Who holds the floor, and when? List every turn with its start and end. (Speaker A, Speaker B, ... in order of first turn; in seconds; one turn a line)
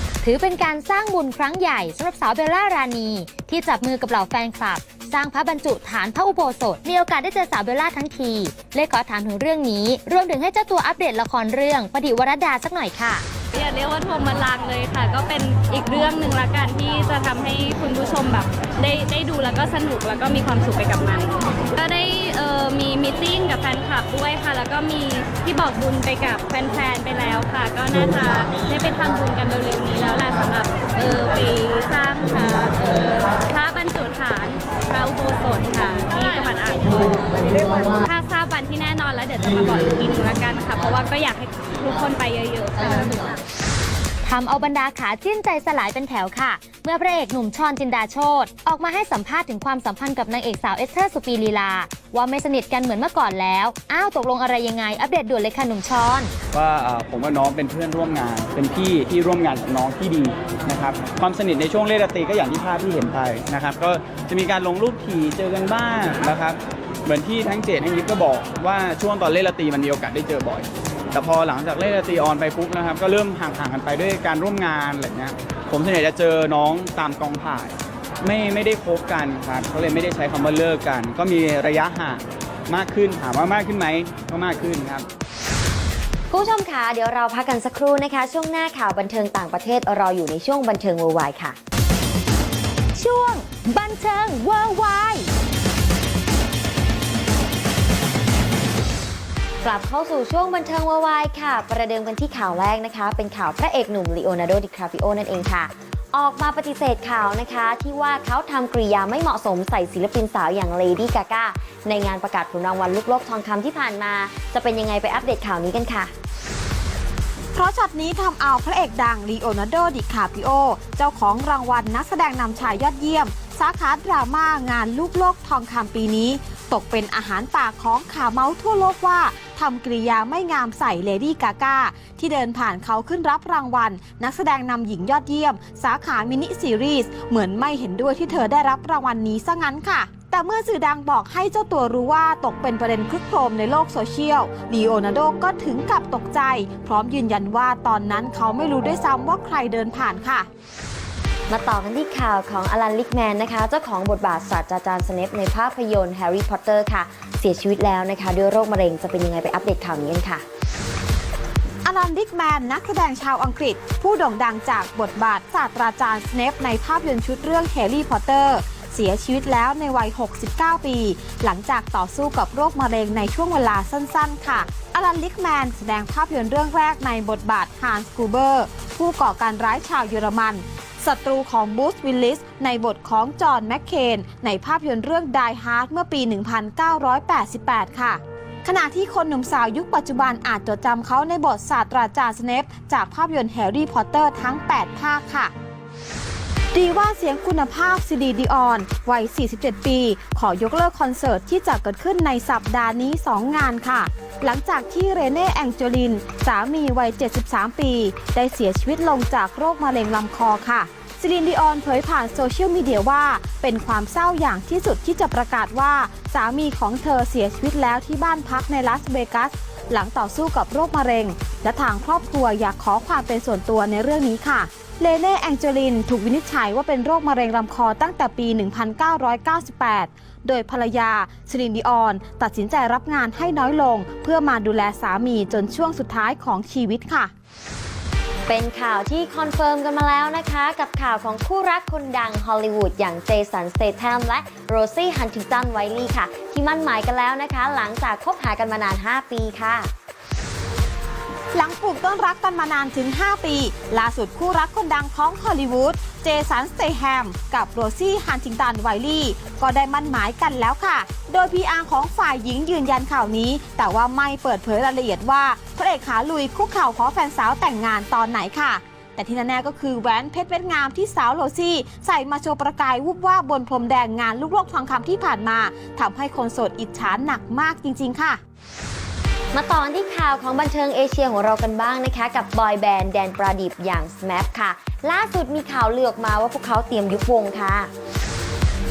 Speaker A: 0.2-13.2
Speaker B: 13.5-43.3
Speaker A: 44.2-56.3
Speaker C: 56.5-85.0
Speaker D: 86.3-91.6
Speaker A: 92.9-95.3
Speaker D: 99.6-116.1
Speaker E: 117.5-150.5
Speaker D: 151.5-160.4
Speaker E: 161.8-195.5
Speaker E: 196.7-237.3
Speaker D: 238.5-249.9
Speaker E: 251.5-278.4
Speaker D: 279.5-287.9